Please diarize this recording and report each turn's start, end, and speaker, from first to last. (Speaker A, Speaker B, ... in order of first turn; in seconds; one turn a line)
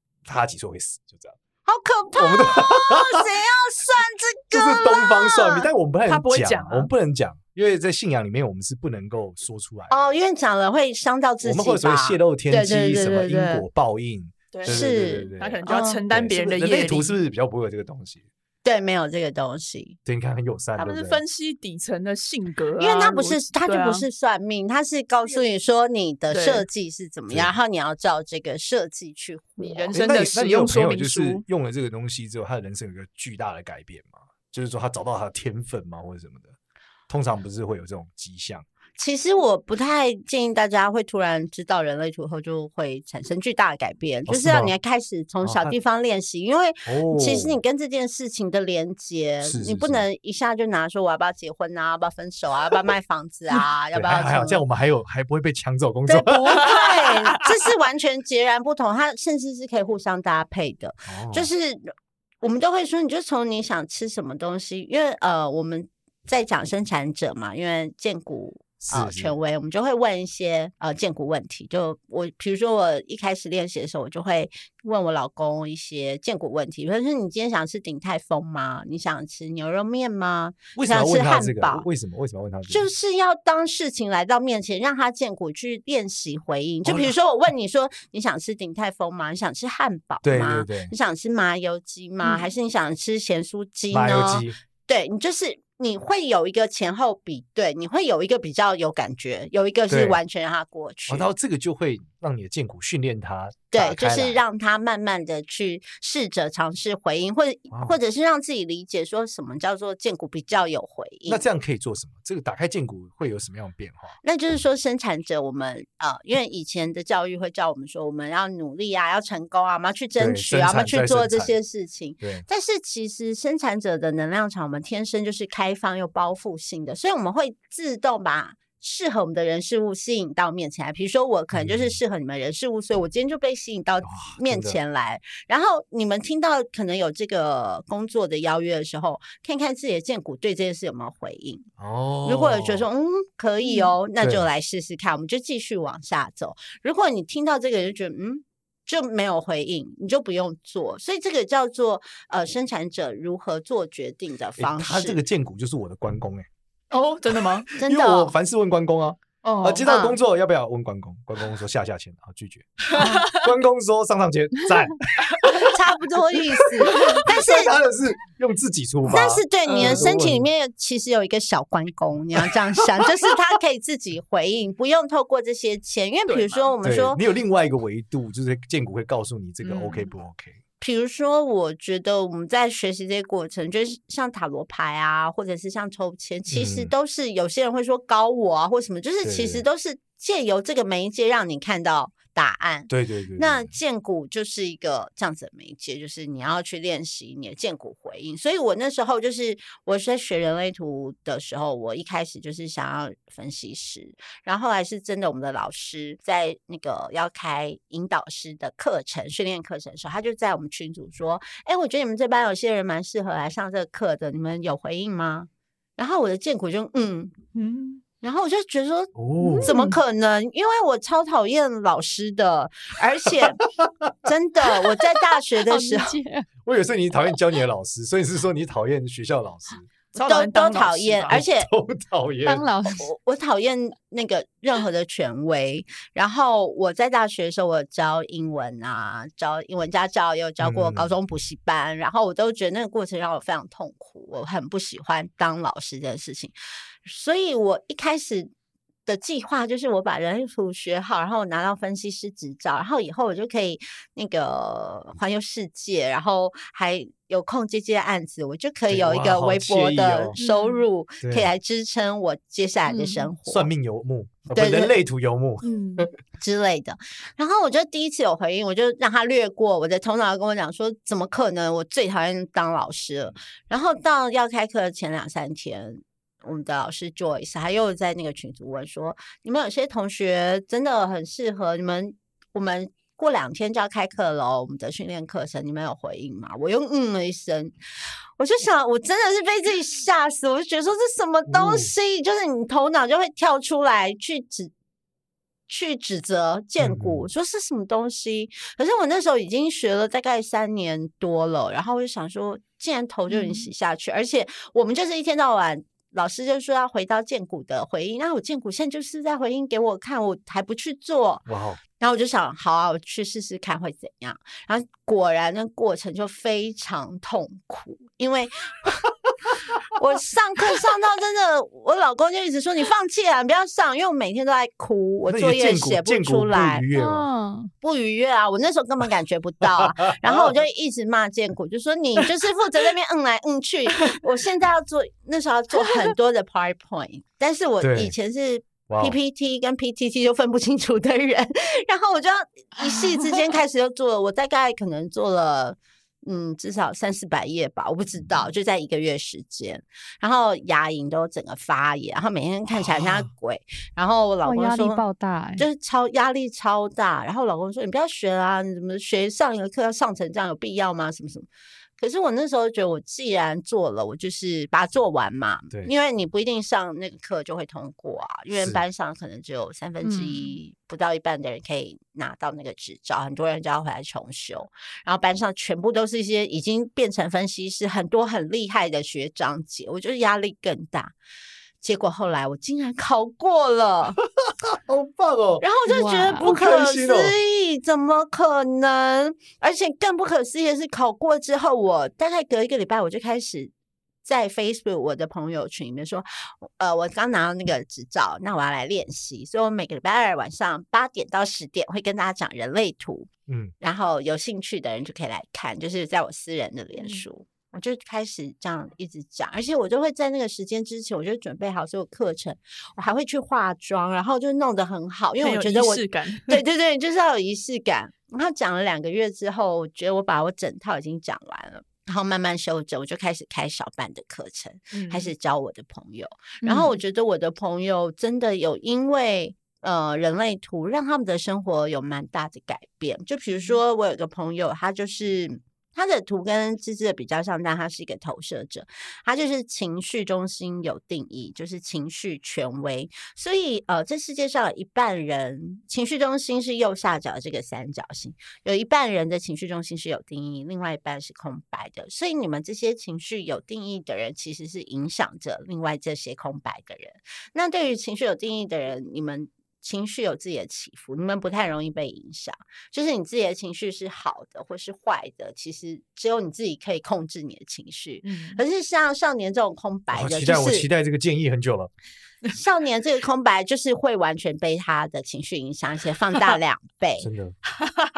Speaker A: 0.2-1.4
Speaker B: 1.6-5.7
Speaker A: 2.2-3.2
Speaker A: 4.5-10.1
Speaker C: 6.1-6.9
Speaker B: 9.9-13.6
Speaker A: 11.4-18.2
Speaker C: 14.5-17.1
Speaker B: 14.6-16.0
Speaker B: 18.6-20.0
Speaker A: 20.1-21.2
Speaker C: 20.8-24.1
Speaker B: 22.8-29.9
Speaker C: 26.3-26.6
Speaker C: 29.6-31.4
Speaker A: 29.9-36.5
Speaker A: 37.1-38.6
Speaker B: 39.0-54.6
Speaker A: 44.3-44.7
Speaker A: 45.4-45.7
Speaker A: 46.9-47.6
Speaker A: 49.4-50.1
Speaker A: 53.9-56.7
Speaker B: 56.1-81.9
Speaker C: 56.6-57.4
Speaker A: 61.1-61.5
Speaker A: 68.8-69.3
Speaker A: 80.7-82.8
Speaker B: 82.7-101.3
Speaker A: 86.8-87.1
Speaker A: 90.2-90.9
Speaker A: 93.9-94.6
Speaker A: 99.9-100.2
Speaker A: 101.1-104.4
Speaker B: 103.7-111.4
Speaker A: 107.7-108.0
Speaker A: 111.3-114.2
Speaker B: 114.2-141.7
Speaker A: 120.2-121.6
Speaker A: 122.2-122.5
Speaker A: 131.5-132.0
Speaker A: 134.0-134.8
Speaker A: 141.8-142.9
Speaker B: 142.2-155.2
Speaker A: 144.2-144.4
Speaker A: 154.6-156.4
Speaker C: 156.9-157.7
Speaker A: 157.5-165.8
Speaker B: 157.7-158.3
Speaker C: 159.4-159.8
Speaker B: 159.8-160.2
Speaker C: 162.9-163.5
Speaker B: 165.5-167.7
Speaker A: 166.3-170.5
Speaker B: 169.1-177.2
Speaker C: 169.7-170.1
Speaker C: 176.3-176.7
Speaker A: 176.8-180.6
Speaker C: 179.6-180.1
Speaker B: 180.8-217.4
Speaker A: 186.5-186.9
Speaker A: 189.2-189.6
Speaker A: 192.9-193.7
Speaker C: 217.6-218.0
Speaker B: 218.2-223.6
Speaker A: 219.1-219.7
Speaker D: 219.4-220.0
Speaker A: 223.6-224.3
Speaker B: 224.2-226.1
Speaker D: 225.6-226.5
Speaker A: 226.6-229.9
Speaker C: 230.1-231.4
Speaker B: 230.2-231.7
Speaker A: 231.3-232.7
Speaker D: 232.4-233.1
Speaker B: 232.9-246.5
Speaker A: 240.6-241.1
Speaker B: 247.1-248.5
Speaker B: 249.1-263.7
Speaker A: 258.9-260.4
Speaker A: 261.2-261.5
Speaker D: 262.9-263.3
Speaker A: 263.5-266.1
Speaker B: 264.5-264.9
Speaker D: 265.7-266.1
Speaker B: 266.4-287.7
Speaker B: 288.4-294.7
Speaker A: 291.5-291.9
Speaker B: 295.7-311.5
Speaker A: 296.8-297.3
Speaker D: 303.3-303.7
Speaker A: 311.5-311.8
Speaker B: 312.0-319.1
Speaker B: 319.9-326.9
Speaker A: 325.3-327.3
Speaker D: 326.9-327.7
Speaker B: 327.8-355.0
Speaker A: 329.6-330.5
Speaker A: 337.8-338.1
Speaker A: 338.9-339.2
Speaker A: 352.9-353.3
Speaker D: 354.4-355.7
Speaker B: 355.6-361.5
Speaker B: 362.0-381.1
Speaker A: 368.5-368.8
Speaker D: 370.0-370.6
Speaker B: 381.8-384.2
Speaker A: 384.4-385.7
Speaker B: 385.6-393.7
Speaker D: 385.9-386.5
Speaker A: 386.3-387.4
Speaker B: 394.2-403.3
Speaker A: 403.5-403.7
Speaker B: 403.8-470.9
Speaker C: 415.4-416.6
Speaker C: 424.9-425.3
Speaker C: 468.2-468.6
Speaker A: 470.1-471.9
Speaker B: 472.5-477.3
Speaker A: 477.2-477.6